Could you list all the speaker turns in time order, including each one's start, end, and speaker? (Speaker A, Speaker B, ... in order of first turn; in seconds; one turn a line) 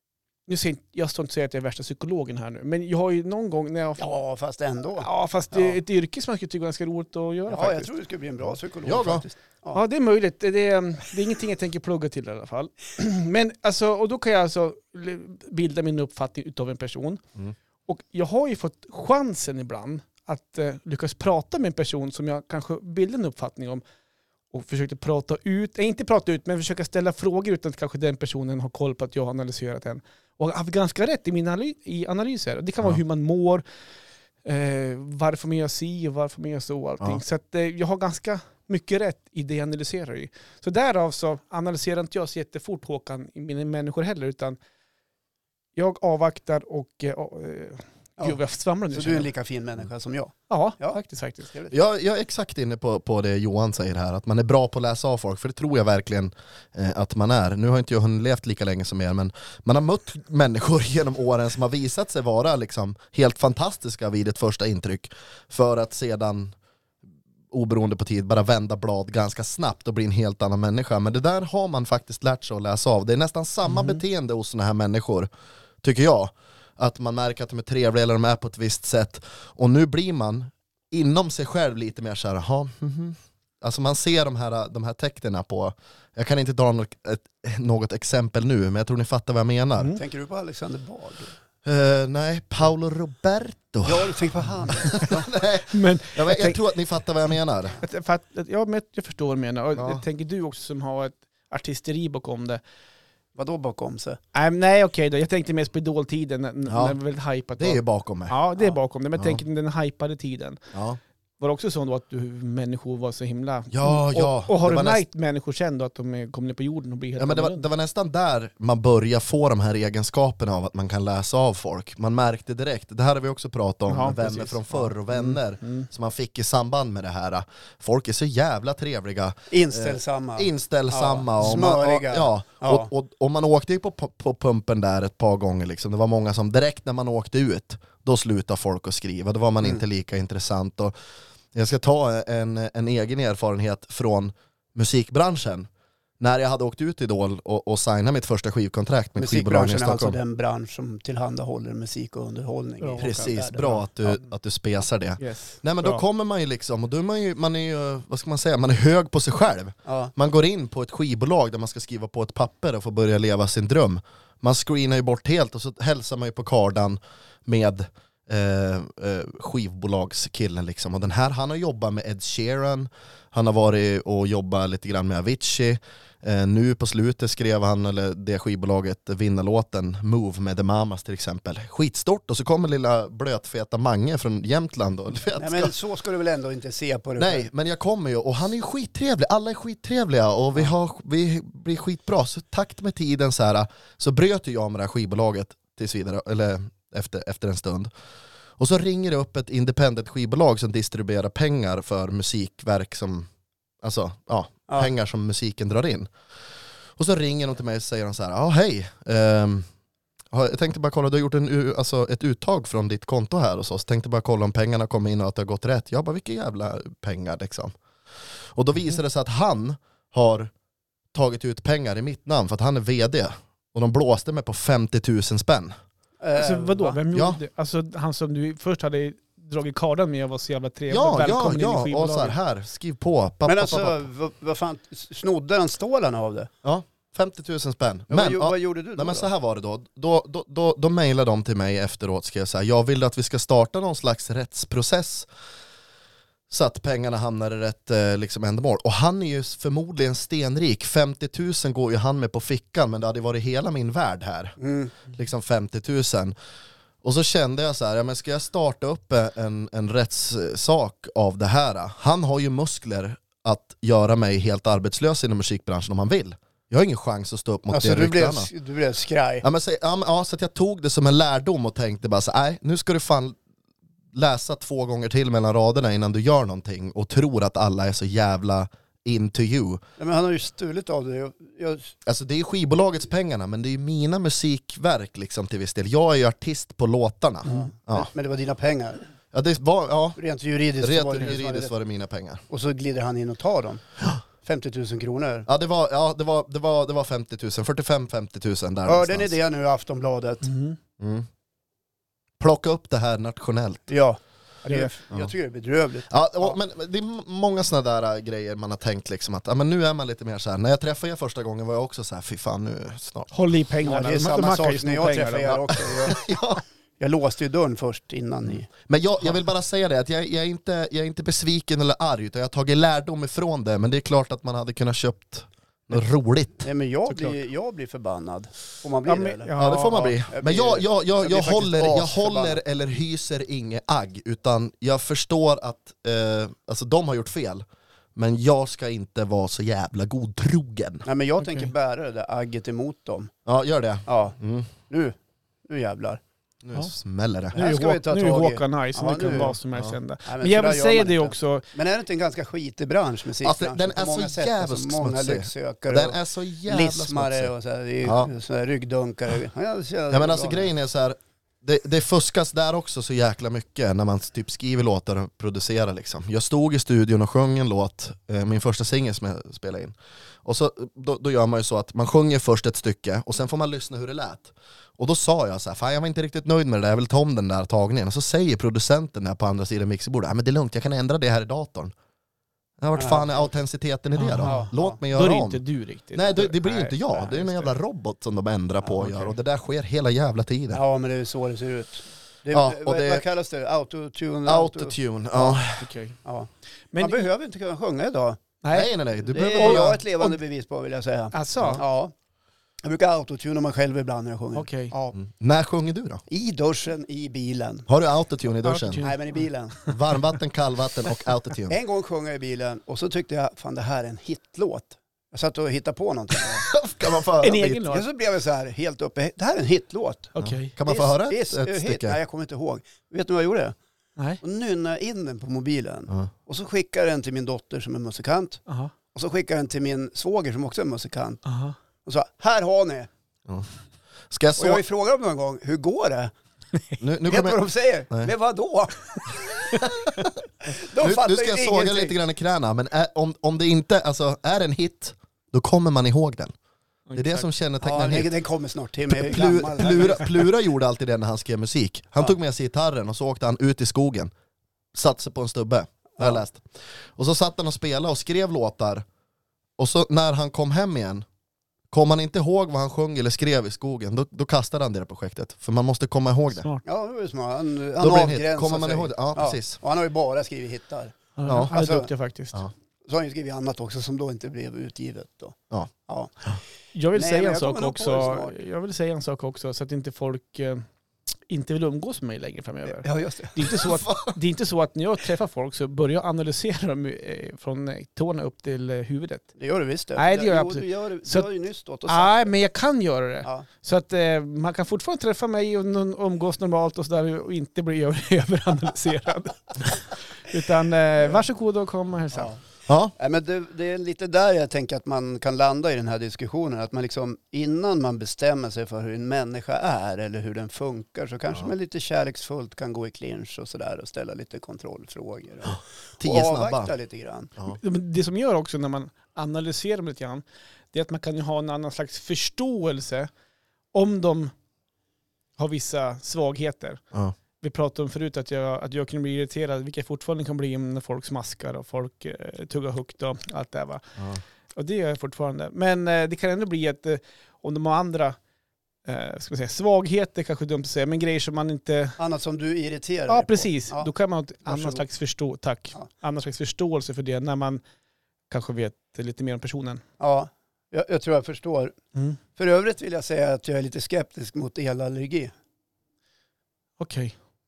Speaker A: 0.5-4.2
Speaker B: 4.0-5.8
Speaker A: 5.0-7.9
Speaker B: 7.5-9.8
Speaker C: 8.8-9.2
Speaker A: 9.7-17.2
Speaker A: 17.9-23.8
Speaker A: 24.5-33.6
Speaker A: 34.5-44.6
Speaker A: 45.8-49.3
Speaker B: 48.9-51.7
Speaker A: 50.5-51.5
Speaker C: 51.7-66.5
Speaker C: 67.5-75.3
Speaker A: 73.7-74.0
Speaker C: 75.8-89.9
Speaker B: 90.0-91.3
Speaker C: 91.7-94.2
Speaker B: 93.8-95.3
Speaker C: 94.7-97.8
Speaker A: 95.7-96.6
Speaker A: 97.8-102.6
Speaker C: 99.8-100.0
Speaker B: 103.4-104.2
Speaker A: 104.3-110.6
Speaker C: 106.7-107.0
Speaker C: 107.6-108.3
Speaker C: 110.7-111.0
Speaker A: 111.4-117.7
Speaker C: 113.7-115.0
Speaker C: 117.2-140.9
Speaker A: 123.9-124.8
Speaker A: 125.6-125.9
Speaker B: 129.5-132.9
Speaker C: 141.5-145.7
Speaker C: 146.2-150.2
Speaker B: 149.2-153.8
Speaker A: 152.8-153.8
Speaker C: 153.0-185.7
Speaker A: 155.2-156.0
Speaker B: 159.9-160.1
Speaker B: 185.4-187.5
Speaker C: 187.2-197.9
Speaker C: 198.6-203.3
Speaker C: 203.8-206.1
Speaker C: 207.0-209.7
Speaker C: 210.3-217.8
Speaker C: 218.6-220.5
Speaker C: 221.1-225.8
Speaker B: 226.2-227.0
Speaker A: 226.3-232.3
Speaker C: 227.1-227.4
Speaker C: 230.9-234.0
Speaker B: 233.4-236.5
Speaker C: 236.6-245.3
Speaker B: 238.1-239.3
Speaker C: 246.5-256.4
Speaker B: 254.6-254.9
Speaker C: 257.0-268.5
Speaker B: 267.7-269.4
Speaker C: 269.4-273.4
Speaker C: 274.1-279.8
Speaker B: 280.0-282.0
Speaker C: 282.1-288.1
Speaker B: 287.5-289.0
Speaker C: 289.3-290.2
Speaker B: 290.2-291.7
Speaker C: 290.8-292.4
Speaker B: 292.5-293.8
Speaker B: 294.4-295.5
Speaker C: 295.5-299.3
Speaker B: 298.9-300.5
Speaker A: 300.4-300.8
Speaker C: 301.0-301.3
Speaker C: 302.4-303.9
Speaker B: 303.9-306.6
Speaker A: 304.7-304.9
Speaker C: 306.1-313.3
Speaker A: 313.3-315.6
Speaker B: 313.8-316.2
Speaker C: 315.9-316.6
Speaker B: 317.0-318.7
Speaker C: 318.5-326.7
Speaker B: 326.6-332.6
Speaker A: 327.1-327.4
Speaker A: 329.1-330.1
Speaker C: 329.6-337.6
Speaker C: 338.2-341.1
Speaker B: 341.1-343.3
Speaker A: 341.4-341.7
Speaker C: 343.5-344.7
Speaker B: 344.1-344.4
Speaker B: 344.9-345.2
Speaker B: 345.7-346.2
Speaker C: 346.6-347.6
Speaker B: 347.5-349.6
Speaker A: 347.6-351.7
Speaker B: 350.2-360.7
Speaker C: 353.4-357.5
Speaker C: 358.0-358.3
Speaker C: 360.1-381.9
Speaker C: 382.8-385.6
Speaker B: 383.0-383.5
Speaker A: 384.1-387.7
Speaker B: 384.4-385.0
Speaker C: 386.1-390.8
Speaker A: 389.0-389.4
Speaker B: 390.7-395.6
Speaker C: 392.5-393.2
Speaker C: 394.5-395.9
Speaker A: 395.8-396.2
Speaker B: 396.2-398.4
Speaker A: 396.9-397.3
Speaker A: 398.6-398.9
Speaker C: 398.7-400.0
Speaker B: 399.2-402.1
Speaker A: 399.5-400.4
Speaker A: 401.3-401.8
Speaker B: 402.8-405.2
Speaker A: 404.6-404.9
Speaker C: 405.2-406.2
Speaker B: 406.3-407.9
Speaker C: 407.9-409.0
Speaker A: 408.6-409.9
Speaker B: 409.0-409.8
Speaker C: 409.9-411.8
Speaker B: 411.7-416.7
Speaker C: 416.7-417.9
Speaker A: 417.4-418.1
Speaker B: 417.9-423.8
Speaker A: 420.4-420.7
Speaker C: 420.4-422.2
Speaker B: 424.4-428.6
Speaker A: 428.7-428.9
Speaker B: 429.1-431.4
Speaker A: 431.4-431.8
Speaker B: 432.1-433.1
Speaker C: 434.3-434.8
Speaker B: 434.6-436.3
Speaker C: 437.0-438.3
Speaker B: 437.2-439.4
Speaker C: 439.8-440.4
Speaker B: 440.6-442.2
Speaker C: 441.0-446.5
Speaker A: 447.1-447.5
Speaker C: 447.2-448.3
Speaker B: 447.8-450.4
Speaker C: 449.1-454.3
Speaker C: 454.9-459.1
Speaker C: 459.8-461.2
Speaker C: 461.9-466.7
Speaker A: 466.6-466.8
Speaker B: 466.9-472.1
Speaker C: 468.0-469.8
Speaker A: 471.4-472.6
Speaker C: 471.5-471.7
Speaker B: 473.1-476.3
Speaker A: 476.9-480.9
Speaker B: 477.1-478.6
Speaker A: 481.5-489.5
Speaker B: 482.9-483.8
Speaker C: 483.8-484.4
Speaker B: 489.6-492.5
Speaker A: 490.2-491.5
Speaker A: 492.1-502.5
Speaker B: 502.3-502.6
Speaker C: 502.9-503.1
Speaker B: 503.2-517.5
Speaker C: 516.2-516.9
Speaker A: 517.7-523.3
Speaker A: 523.9-524.5
Speaker A: 525.6-527.0
Speaker A: 527.6-534.0
Speaker A: 534.8-538.4
Speaker A: 539.0-542.2
Speaker B: 542.2-544.1
Speaker A: 543.3-547.8
Speaker B: 544.7-545.0
Speaker A: 548.5-550.0
Speaker B: 550.2-552.0
Speaker B: 552.6-555.5
Speaker A: 557.0-557.4